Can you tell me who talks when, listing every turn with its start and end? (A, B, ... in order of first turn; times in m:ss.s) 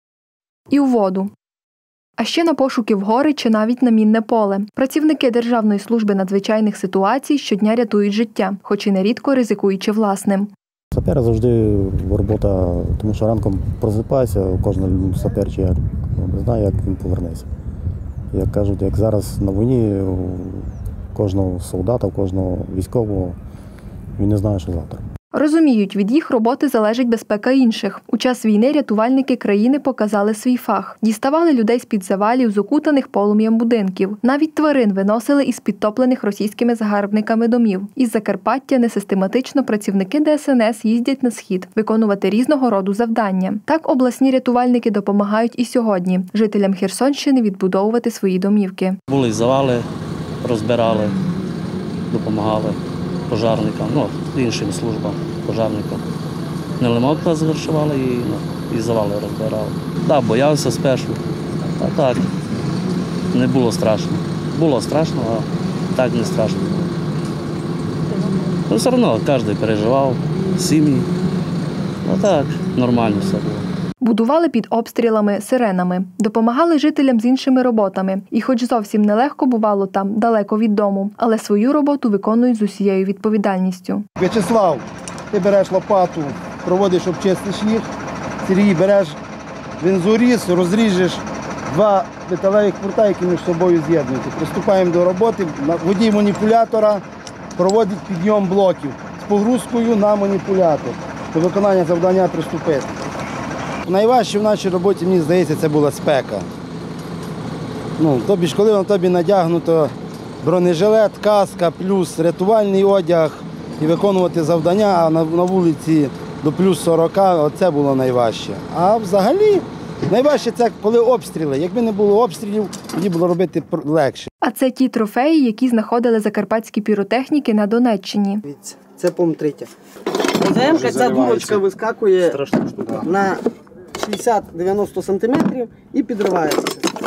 0:00.7-0:01.3 A
0:02.2-0:10.5 A
0:10.9-0:17.5 B
0:18.3-0:23.4 B
0:24.2-0:25.0 B
0:25.3-0:49.0 A
0:49.1-0:49.9 C
0:50.4-0:51.2 C
0:52.1-0:52.8 C
0:53.3-0:56.0 C
0:56.8-1:01.2 C
1:01.8-1:02.3 C
1:03.3-1:06.9 C
1:08.7-1:11.1 C
1:12.0-1:13.6 C
1:14.0-1:24.1 A
1:24.2-1:27.9 D
1:28.4-1:29.2 D
1:29.8-1:37.0 D
1:37.6-1:43.0 D
1:43.8-1:46.5 D
1:48.0-2:04.3 D
2:04.4-2:08.4 A
2:08.5-2:09.7 E
2:10.4-2:12.3 E
2:10.4-2:11.6 D
2:12.3-2:12.7 C
2:13.0-2:13.4 E
2:14.0-2:16.8 E